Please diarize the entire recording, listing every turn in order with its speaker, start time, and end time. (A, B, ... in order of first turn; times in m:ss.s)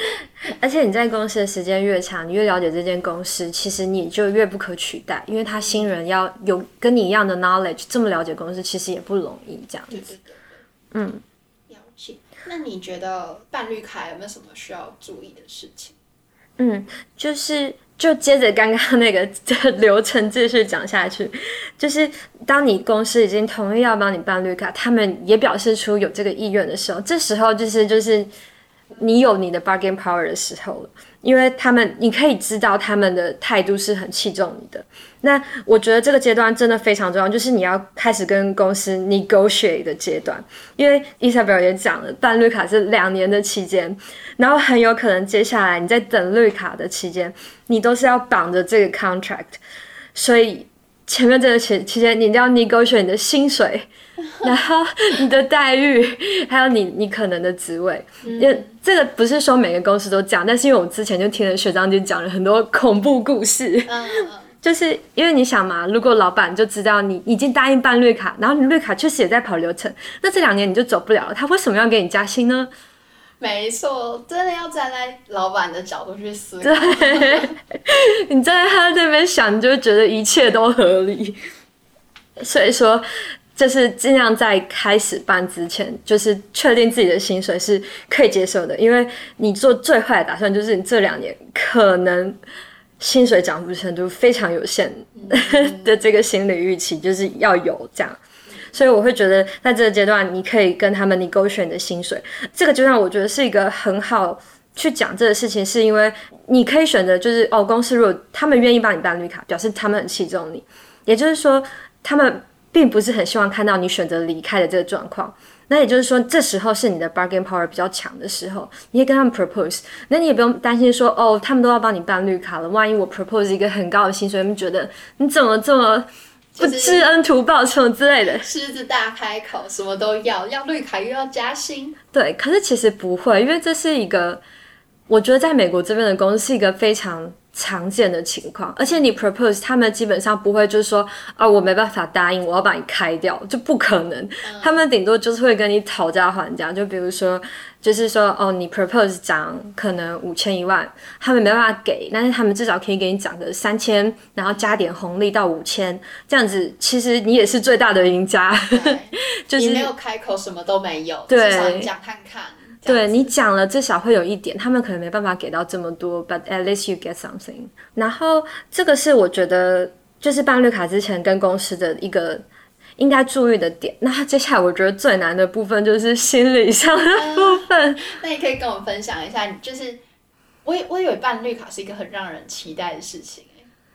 0:00.4-0:10.1 A
0:05.6-0:05.9 B
0:09.9-0:10.6 B
0:10.9-0:11.2 A
0:11.7-0:16.0 B
0:16.6-0:28.3 A
0:29.0-0:49.6 A
0:50.2-0:53.9 A
0:54.4-1:12.7 A
0:58.2-0:58.7 B
1:03.9-1:04.5 B
1:13.4-1:17.5 B
1:16.6-1:21.4 A
1:22.4-1:32.4 A
1:33.0-1:38.2 A
1:35.1-1:36.0 B
1:38.5-1:38.7 B
1:38.7-2:08.5 A
2:06.6-2:07.1 B
2:08.2-2:12.0 B
2:12.1-2:14.4 A
2:15.1-2:39.9 A
2:24.4-2:24.8 B
2:34.5-2:34.8 B
2:38.7-2:43.4 B
2:41.3-2:41.9 A
2:42.9-2:52.5 A
2:53.0-2:58.0 A
2:57.1-3:00.0 B
3:00.6-3:03.7 B